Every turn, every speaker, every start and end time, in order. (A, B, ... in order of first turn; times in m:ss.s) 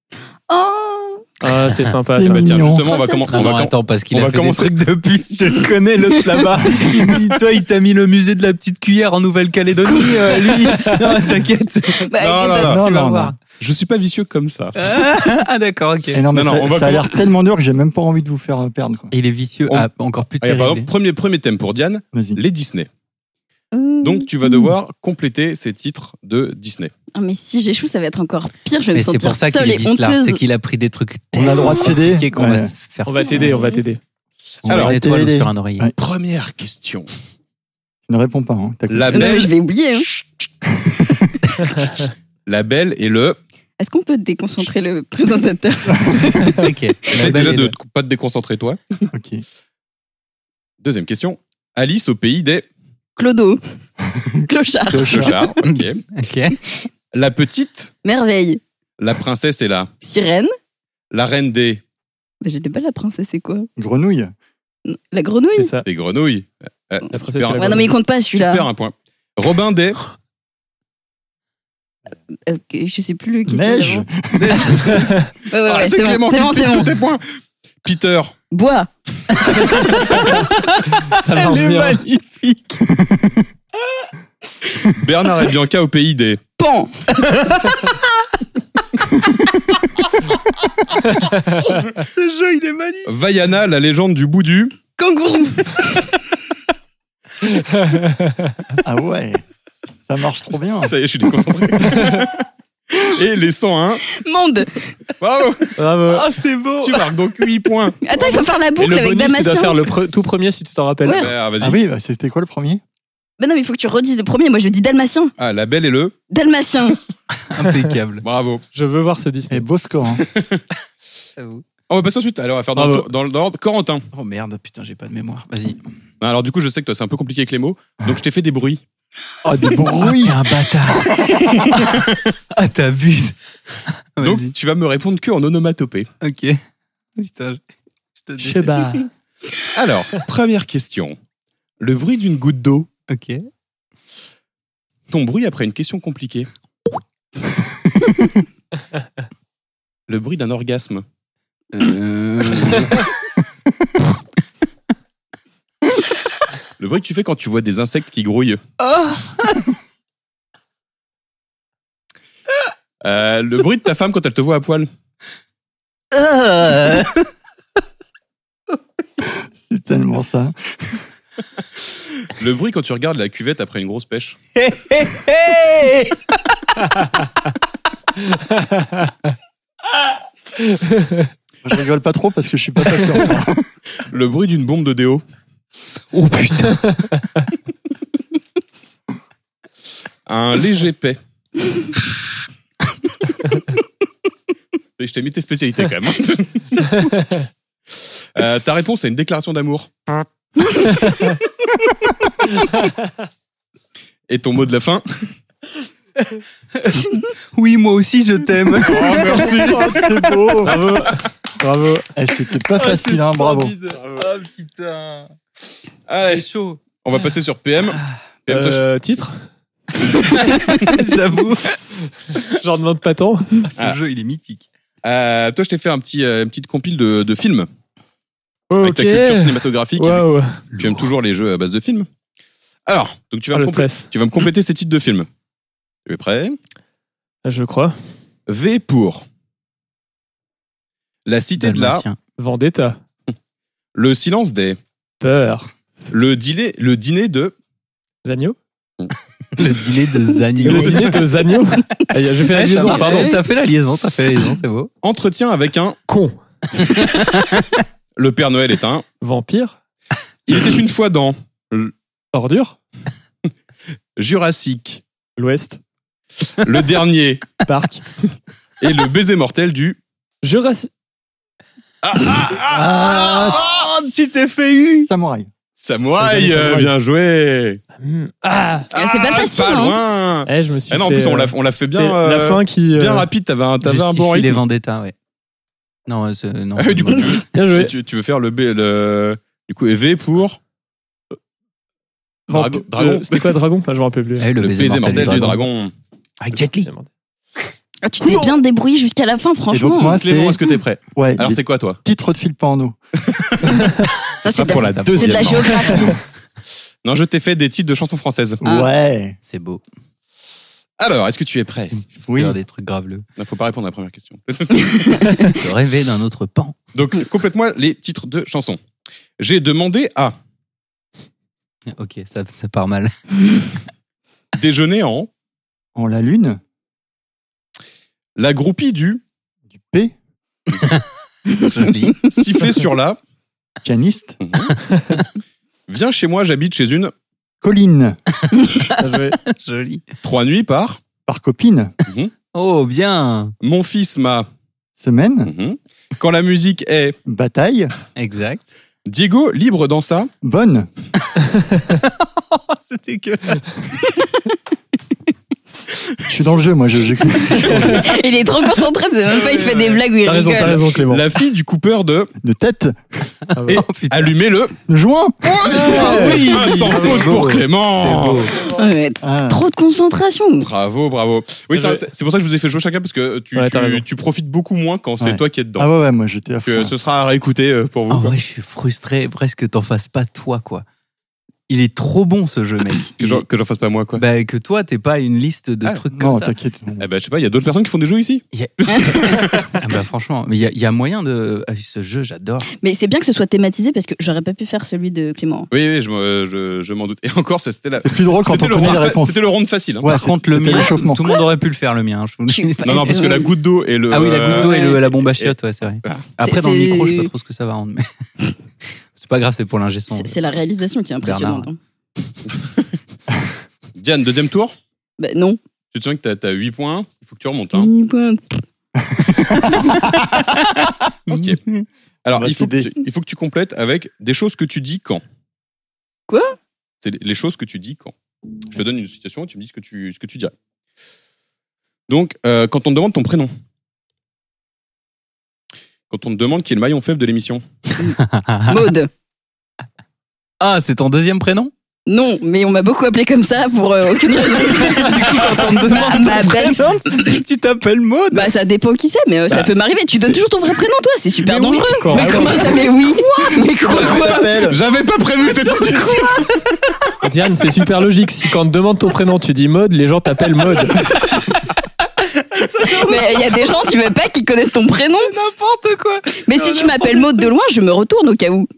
0:00.5-0:01.3 A
0:01.4-0:02.5 B
0:02.1-0:02.8 C
0:02.3-0:04.7 D
0:02.8-0:03.4 A
0:03.3-0:12.1 E
0:09.9-0:10.8 A
0:12.0-0:12.8 A
0:12.2-0:12.8 D
0:12.6-0:13.3 C
0:12.8-0:13.3 E
0:13.6-0:14.8 D
0:14.8-0:16.2 E
0:16.1-0:19.1 C
0:16.3-0:17.1 D
0:19.1-0:20.9 E
0:20.4-0:22.9 D
0:22.1-0:22.4 C
0:23.7-0:24.7 A
0:24.0-0:26.9 D
0:27.1-0:30.4 A
0:28.9-0:33.7 E
0:31.3-0:32.7 C
0:33.0-0:34.0 B
0:33.5-0:33.8 A
0:34.6-0:35.0 D
0:34.6-0:35.9 E
0:34.6-0:35.9 C
0:36.0-0:37.1 D
0:38.1-0:39.3 C
0:38.9-0:39.5 D
0:39.1-0:40.0 A
0:40.1-0:40.4 D
0:40.6-0:41.5 C
0:42.4-0:43.4 D
0:43.8-0:46.6 A
0:46.6-0:47.7 E
0:47.1-0:48.8 D
0:47.2-0:47.5 C
0:49.1-0:49.4 C
0:50.8-0:52.6 D
0:53.2-0:53.6 A
0:54.2-0:55.5 C
0:54.5-0:55.4 A
0:55.1-0:56.0 D
0:55.6-0:56.6 E
0:57.1-0:57.9 D
0:58.0-0:58.6 A
0:59.0-0:59.9 D
1:00.0-1:00.5 A
1:01.1-1:01.8 D
1:02.4-1:03.7 A
1:03.8-1:04.3 C
1:04.8-1:05.8 A
1:05.5-1:05.8 B
1:05.8-1:10.0 D
1:07.1-1:07.9 B
1:07.6-1:08.7 A
1:12.5-1:14.0 A
1:13.5-1:15.0 C
1:14.3-1:15.0 E
1:15.5-1:16.9 A
1:15.6-1:17.2 D
1:17.8-1:18.4 D
1:18.5-1:18.9 A
1:19.4-1:22.8 E
1:20.0-1:20.3 B
1:21.0-1:22.0 B
1:23.0-1:23.4 C
1:24.9-1:26.4 D
1:26.6-1:26.9 A
1:27.2-1:28.0 E
1:31.2-1:31.6 B
1:31.6-1:33.1 E
1:33.0-1:34.8 D
1:35.0-1:36.1 A
1:37.6-1:38.3 B
1:38.8-1:39.4 C
1:40.0-1:40.9 C
1:40.8-1:44.0 D
1:44.1-1:44.8 A
1:45.2-1:45.8 D
1:45.8-1:46.2 B
1:46.1-1:47.1 E
1:46.8-1:48.0 D
1:48.0-1:49.8 A
1:48.8-1:51.3 B
1:51.0-1:51.3 A
1:51.1-1:51.8 D
1:51.6-1:52.8 C
1:53.4-1:55.3 A
1:55.4-1:56.2 D
1:56.3-1:57.0 A
1:57.4-1:58.2 E
1:58.2-1:58.6 D
1:58.7-1:59.6 B
1:59.5-2:00.2 C
2:00.2-2:00.6 D
2:01.4-2:01.6 E
2:01.9-2:04.0 D
2:02.8-2:03.1 B
2:04.1-2:05.8 E
2:06.2-2:08.8 D
2:09.4-2:10.4 C
2:09.9-2:12.0 E
2:12.5-2:14.5 E
2:14.2-2:16.1 D
2:16.2-2:16.6 E
2:17.2-2:17.6 E
2:18.2-2:19.0 E
2:18.4-2:19.1 B
2:19.7-2:21.1 D
2:21.8-2:22.9 D
2:23.1-2:23.5 E
2:25.1-2:26.5 D
2:28.0-2:28.3 C
2:30.1-2:31.0 D
2:31.7-2:33.1 E
2:36.8-2:38.6 D
2:38.8-2:39.7 E
2:43.0-2:44.9 D
2:46.1-2:47.3 E
2:49.2-2:51.0 C
2:52.2-2:54.4 D
2:54.5-2:56.2 E
2:58.5-2:59.1 B
3:00.7-3:01.3 B
3:01.6-3:03.7 C
3:04.1-3:05.2 D
3:06.1-3:07.2 E
3:10.2-3:11.2 D
3:15.0-3:16.8 D
3:16.9-3:17.4 B
3:18.4-3:20.1 D
3:21.0-3:21.3 B
3:24.3-3:25.3 D
3:26.7-3:29.9 E
3:28.8-3:30.0 D
3:29.4-3:30.8 C
3:30.6-3:32.1 B
3:32.2-3:33.7 C
3:32.7-3:35.3 E
3:36.1-3:36.5 D
3:36.2-3:36.8 E
3:37.0-3:38.8 D
3:37.8-3:38.2 E
3:38.5-3:39.5 B
3:40.2-3:41.8 E
3:42.5-3:43.6 B
3:43.6-3:44.7 E
3:45.0-3:47.7 D
3:48.7-3:50.6 B
3:48.8-3:52.1 D
3:50.7-3:51.1 E
3:52.9-3:55.3 D
3:53.5-3:54.0 B
3:56.1-3:56.6 D
3:57.4-3:58.0 B
3:58.5-3:59.2 D
4:01.2-4:02.0 D
4:01.6-4:02.2 E
4:02.4-4:03.0 B
4:03.9-4:04.8 D
4:05.2-4:05.7 B
4:06.1-4:07.5 D
4:08.2-4:08.6 B
4:09.5-4:11.2 E
4:10.6-4:13.3 B
4:12.3-4:14.9 E
4:12.9-4:13.4 A
4:15.0-4:16.0 D
4:16.1-4:16.4 B
4:16.9-4:17.8 E
4:18.2-4:19.0 D
4:19.2-4:19.8 B
4:20.5-4:21.9 D
4:22.3-4:22.8 B
4:24.2-4:25.0 D
4:25.4-4:25.8 B
4:26.6-4:27.4 D
4:27.6-4:28.0 B
4:28.8-4:30.0 D
4:30.4-4:30.9 B
4:32.0-4:33.8 D
4:32.1-4:35.1 E
4:35.0-4:35.5 C
4:35.8-4:37.8 D
4:38.0-4:38.9 B
4:38.9-4:40.0 A
4:38.9-4:44.6 D
4:40.4-4:43.3 B
4:43.8-4:45.1 E
4:46.1-4:47.4 E
4:46.8-4:50.6 D
4:47.5-4:47.9 B
4:52.5-4:54.5 B
4:52.5-4:53.5 D
4:54.4-4:55.6 E
4:54.6-4:55.9 D
4:56.4-4:56.9 E
4:56.8-4:57.1 B
4:58.0-5:00.2 A
4:59.7-5:00.6 C
5:00.1-5:02.0 D
5:01.1-5:03.0 C
5:03.2-5:03.9 D
5:04.4-5:06.1 D
5:04.4-5:06.2 A
5:04.6-5:06.1 E
5:07.0-5:08.6 D
5:08.6-5:09.4 C
5:08.6-5:08.9 A
5:09.4-5:09.8 E
5:11.0-5:12.0 D
5:12.1-5:13.2 E
5:12.3-5:12.6 C
5:13.4-5:15.4 D
5:15.5-5:16.8 E
5:16.9-5:18.8 D
5:19.4-5:20.3 D
5:21.9-5:23.1 E
5:24.5-5:25.3 D
5:26.0-5:26.6 C
5:28.4-5:29.2 D
5:29.8-5:30.1 C
5:31.6-5:32.2 E
5:32.2-5:33.2 D
5:33.8-5:34.4 C
5:34.4-5:34.7 D
5:35.9-5:37.1 D
5:37.6-5:38.2 C
5:38.5-5:40.0 E
5:39.0-5:39.4 B
5:40.2-5:41.0 D
5:41.2-5:41.9 C
5:42.0-5:42.3 D
5:42.5-5:43.5 E
5:43.6-5:44.5 D
5:45.0-5:45.5 C
5:45.4-5:47.2 D
5:47.3-5:47.9 C
5:48.2-5:48.7 E
5:49.0-5:50.3 D
5:50.4-5:50.9 C
5:51.9-5:54.2 E
5:56.3-5:58.1 C
5:58.0-6:00.8 A
5:59.4-5:59.7 E
6:00.2-6:01.2 B
6:01.0-6:02.3 D
6:02.4-6:03.3 C
6:03.6-6:03.8 B
6:03.6-6:04.3 E
6:04.1-6:04.8 D
6:04.9-6:05.7 C
6:05.4-6:08.5 D
6:05.6-6:08.5 E
6:05.7-6:07.3 B
6:08.8-6:10.7 A
6:09.2-6:09.6 C
6:10.6-6:15.9 D
6:11.7-6:12.0 B
6:13.6-6:14.0 B
6:15.2-6:16.9 C
6:16.6-6:18.3 D
6:18.1-6:20.8 E
6:21.7-6:23.4 E
6:23.2-6:24.2 D
6:24.1-6:26.6 E
6:26.1-6:27.0 C
6:27.0-6:29.7 D
6:28.5-6:32.7 E
6:28.9-6:29.2 A
6:32.8-6:35.7 A
6:35.7-6:40.2 D
6:38.0-6:39.4 C
6:40.0-6:41.3 C
6:40.0-6:43.4 E
6:40.7-6:41.4 A
6:42.5-6:43.5 A
6:42.8-6:46.3 D
6:44.1-6:48.1 E
6:44.5-6:45.0 A
6:46.4-6:47.3 A
6:49.1-6:50.4 E
6:50.1-6:51.8 A
6:51.2-6:51.7 E
6:52.5-6:52.8 D
6:53.9-6:54.7 D
6:55.2-6:55.6 A
6:55.9-6:57.9 D
6:57.7-6:58.6 A
6:59.2-7:00.2 C
7:01.3-7:01.6 D
7:01.3-7:01.9 E
7:02.2-7:05.2 D
7:02.3-7:02.9 C
7:06.3-7:06.6 A
7:07.0-7:08.1 D
7:08.7-7:10.5 D
7:12.1-7:13.5 D
7:16.1-7:17.6 D
7:18.0-7:18.9 E
7:18.7-7:19.1 A
7:20.6-7:21.7 E
7:22.1-7:26.9 A
7:24.4-7:28.5 E
7:28.3-7:34.6 A
7:31.4-7:33.7 E
7:32.0-7:32.4 B
7:32.2-7:32.5 C
7:33.8-7:34.8 C
7:34.1-7:36.6 D
7:35.6-7:36.6 E
7:37.2-7:41.0 B
7:42.2-7:44.0 E
7:42.9-7:45.3 A
7:45.2-7:47.5 E
7:46.4-7:48.7 A